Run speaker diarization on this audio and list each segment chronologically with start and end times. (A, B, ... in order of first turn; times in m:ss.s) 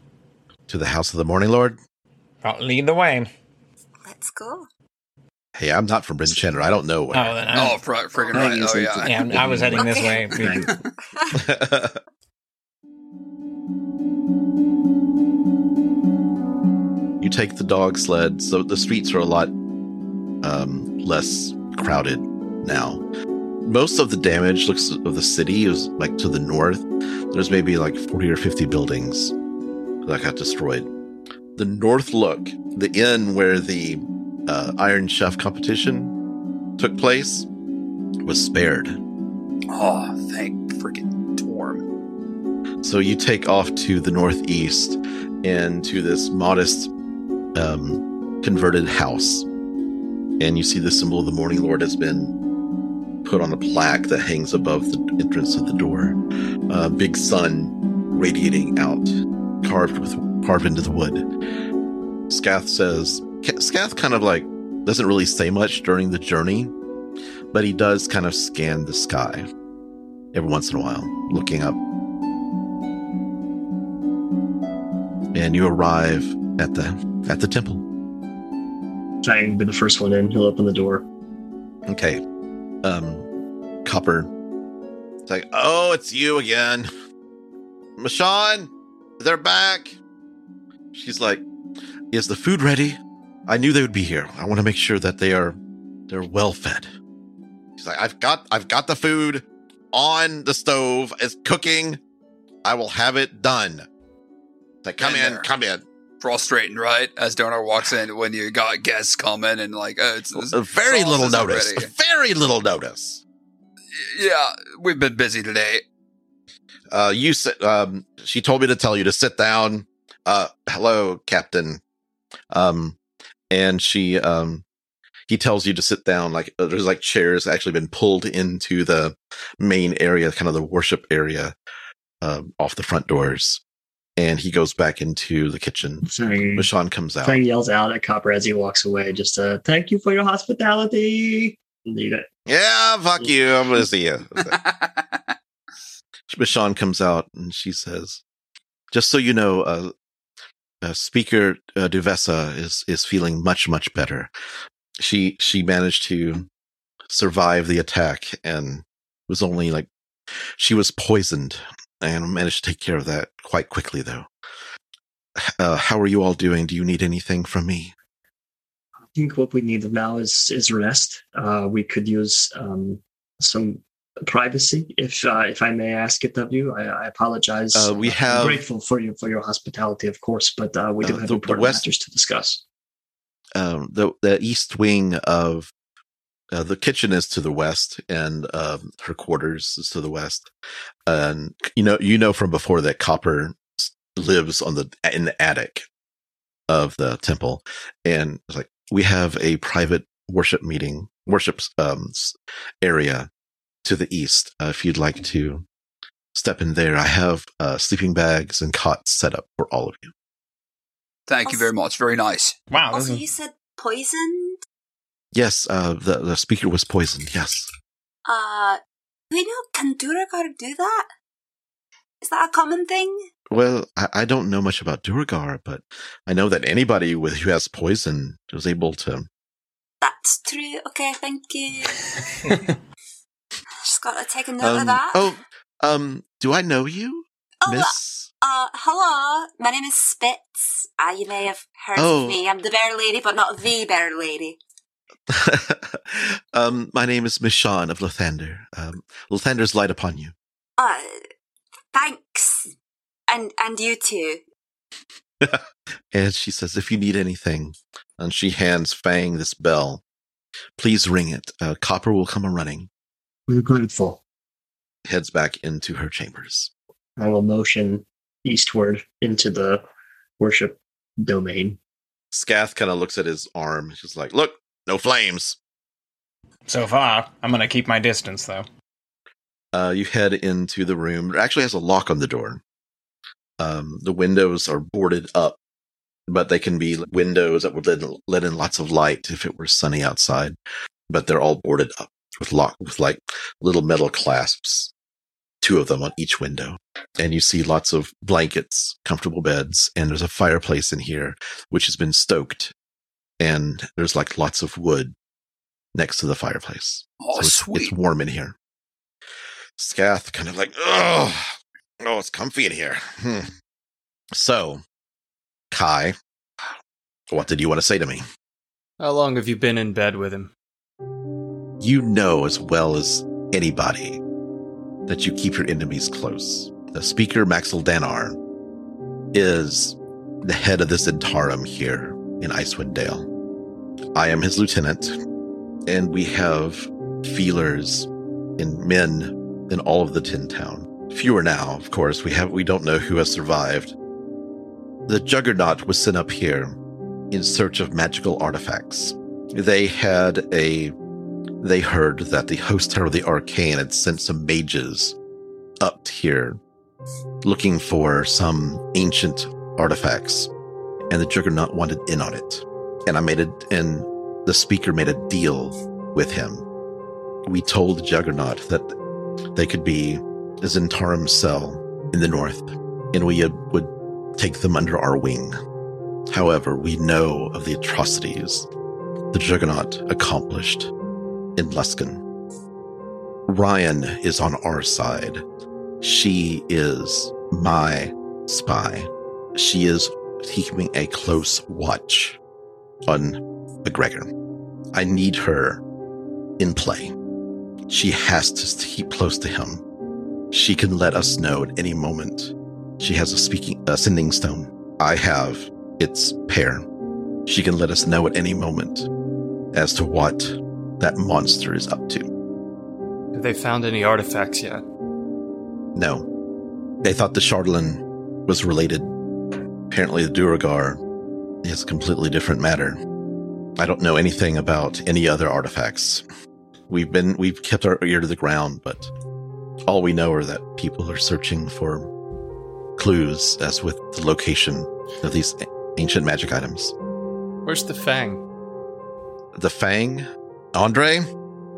0:00.7-0:01.8 A
0:02.4-0:03.3 B
0:04.0-0:04.7 C
0:05.5-0:07.7 A
0:07.1-0:07.8 B
0:07.5-0:09.2 D
0:08.2-0:08.4 C
0:08.3-0:10.7 E
0:09.0-0:10.6 B
0:09.7-0:10.3 C
0:11.2-0:11.4 C
0:11.4-0:12.0 A
0:17.2-0:19.5 A
0:20.4-0:23.0 A
0:23.6-0:29.3 A
0:30.0-0:30.9 A
0:31.6-0:36.1 A
0:36.8-0:37.5 A
0:38.2-0:39.0 A
0:39.7-0:41.8 D
0:42.8-0:46.9 A
0:47.5-0:49.4 A
0:50.4-0:52.3 A
0:53.2-1:01.2 A
1:02.3-1:06.7 A
1:07.5-1:09.5 A
1:10.3-1:11.8 A
1:15.3-1:17.8 A
1:19.2-1:21.0 E
1:21.9-1:22.2 A
1:22.8-1:23.3 A
1:23.8-1:24.3 A
1:25.3-1:26.9 A
1:28.0-1:30.0 A
1:30.9-1:31.4 A
1:32.1-1:35.6 A
1:36.1-1:36.9 A
1:37.8-1:42.0 A
1:42.6-1:43.9 A
1:44.8-1:45.8 A
1:45.0-1:45.5 D
1:46.2-1:51.9 D
1:50.4-1:53.2 A
1:53.9-1:55.8 D
1:56.9-2:01.8 A
2:02.5-2:03.0 A
2:03.5-2:04.6 A
2:05.3-2:11.5 A
2:12.2-2:13.6 A
2:14.2-2:17.4 A
2:16.0-2:16.7 E
2:17.2-2:22.3 E
2:22.5-2:24.6 A
2:24.4-2:25.3 D
2:26.3-2:28.2 A
2:28.9-2:29.9 A
2:30.8-2:34.3 A
2:35.0-2:36.5 A
2:37.1-2:39.9 A
2:40.6-2:44.3 A
2:45.4-2:47.9 A
2:49.1-3:02.6 E
2:57.7-2:58.6 A
3:01.0-3:01.8 A
3:03.5-3:05.7 A
3:06.5-3:10.5 A
3:11.1-3:15.8 A
3:16.7-3:23.3 A
3:23.8-3:25.6 A
3:26.3-3:30.1 A
3:31.3-3:32.5 D
3:31.4-3:31.7 C
3:32.7-3:33.2 B
3:32.9-3:34.6 C
3:35.3-3:37.7 A
3:38.2-3:38.8 C
3:39.3-3:41.1 C
3:42.2-3:43.3 C
3:43.5-3:49.3 A
3:50.0-3:52.5 C
3:53.8-3:55.3 C
3:54.6-3:58.3 A
3:57.6-4:04.6 C
4:02.0-4:02.4 A
4:05.3-4:10.3 A
4:10.8-4:11.3 C
4:11.9-4:12.7 C
4:13.3-4:14.4 C
4:15.4-4:20.0 A
4:20.8-4:22.9 A
4:23.5-4:24.2 E
4:25.0-4:26.7 A
4:27.2-4:29.8 E
4:30.4-4:31.8 E
4:32.3-4:35.6 A
4:36.7-4:38.7 B
4:39.7-4:42.6 A
4:43.6-4:45.6 A
4:46.3-4:50.6 A
4:51.1-4:54.9 A
4:55.6-5:02.7 A
5:03.4-5:05.1 A
5:05.9-5:08.5 A
5:07.2-5:07.9 D
5:09.8-5:13.5 A
5:14.3-5:14.8 A
5:15.7-5:16.2 A
5:17.3-5:18.2 A
5:19.0-5:20.5 F
5:21.8-5:24.2 A
5:25.1-5:28.4 A
5:29.3-5:33.3 A
5:34.1-5:35.2 A
5:35.9-5:43.9 A
5:45.1-5:46.8 A
5:47.3-5:50.9 A
5:51.6-5:55.2 A
5:55.8-5:56.6 A
5:57.4-6:00.5 A
6:01.1-6:06.6 A
6:07.4-6:08.9 A
6:09.5-6:15.5 A
6:16.3-6:18.7 A
6:19.3-6:20.9 A
6:21.6-6:22.2 A
6:23.5-6:25.4 A
6:26.0-6:32.4 A
6:33.1-6:34.3 A
6:34.9-6:35.8 A
6:36.6-6:37.1 A
6:37.9-6:39.8 A
6:40.5-6:46.8 A
6:47.5-6:49.1 A
6:49.7-6:52.3 A
6:53.3-6:54.8 F
6:55.9-6:56.3 A
6:57.0-6:59.1 A
6:59.9-7:01.0 A
7:01.6-7:03.0 A
7:03.8-7:06.2 A
7:06.9-7:09.1 A
7:09.9-7:12.1 A
7:13.0-7:16.9 A
7:17.6-7:18.4 F
7:19.5-7:21.3 A